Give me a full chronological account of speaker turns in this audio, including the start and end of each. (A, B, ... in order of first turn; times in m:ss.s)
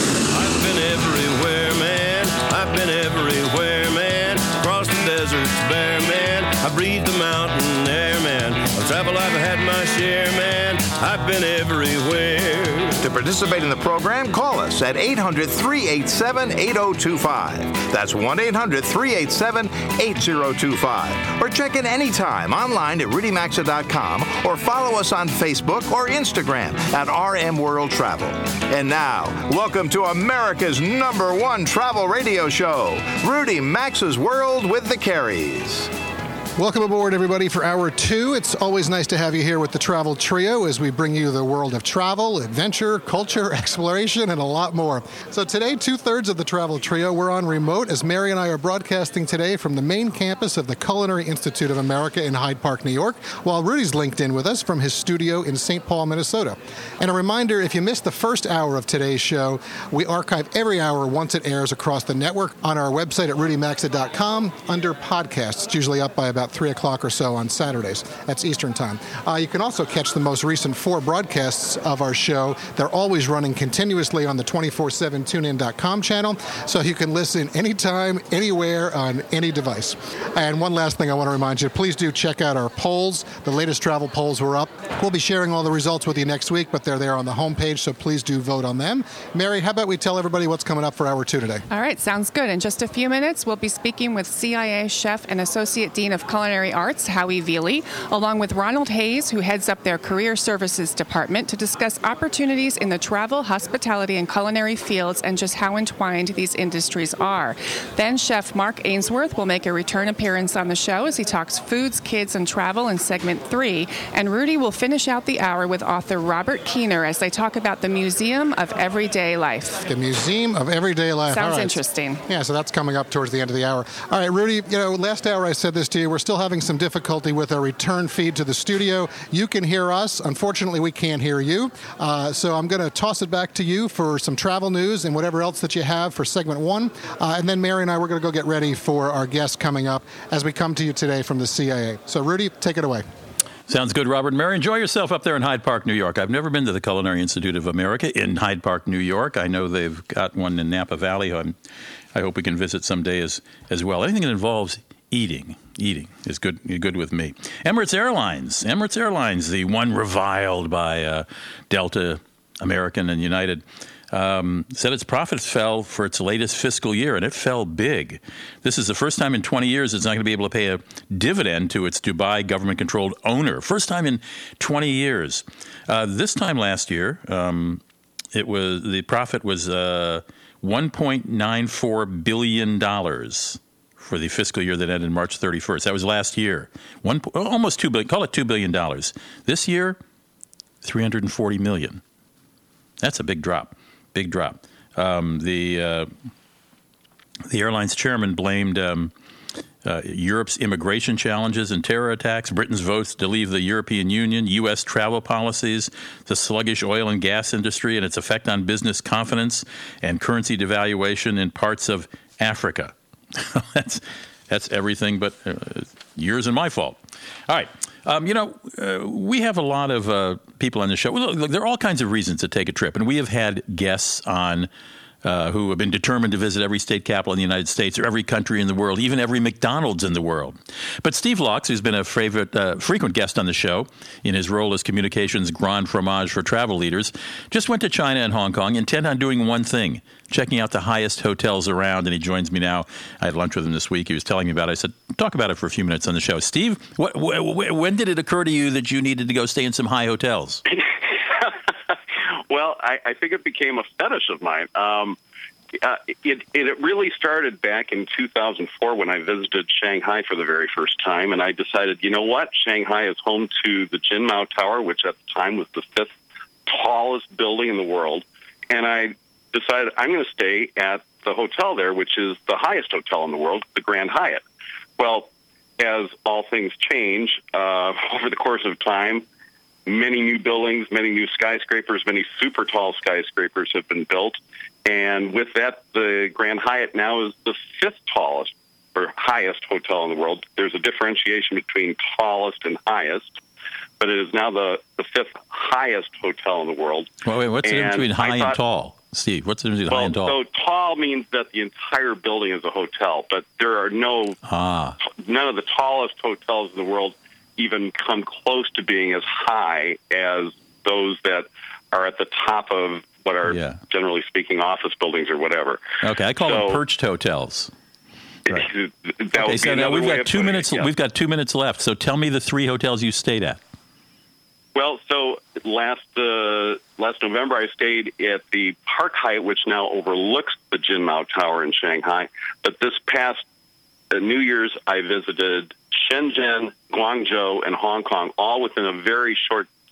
0:00.3-0:13.0 A
0:13.0-0:35.9 B
0:36.6-1:31.6 C
1:31.7-1:59.8 D
1:59.9-2:23.0 C
2:01.3-2:02.2 D
2:23.7-2:31.6 E
2:32.1-2:57.8 E
2:58.3-3:10.0 E
3:10.8-3:12.0 E
3:13.0-3:16.1 E
3:17.5-3:19.1 E
3:19.8-3:44.7 E
3:45.2-4:10.6 E
4:12.5-4:15.2 F
4:15.8-4:26.1 F
4:26.7-4:34.4 F
4:35.0-4:39.2 F
4:39.9-4:53.3 F
4:54.0-4:57.1 F
4:57.3-5:00.4 E
4:57.6-4:58.6 F
4:59.9-5:04.4 F
5:04.4-5:05.0 E
5:05.0-5:15.8 F
5:13.5-5:13.8 E
5:16.0-5:17.7 E
5:16.4-5:16.8 F
5:18.5-5:20.9 F
5:19.3-5:23.6 E
5:24.8-5:33.4 F
5:34.1-5:39.7 F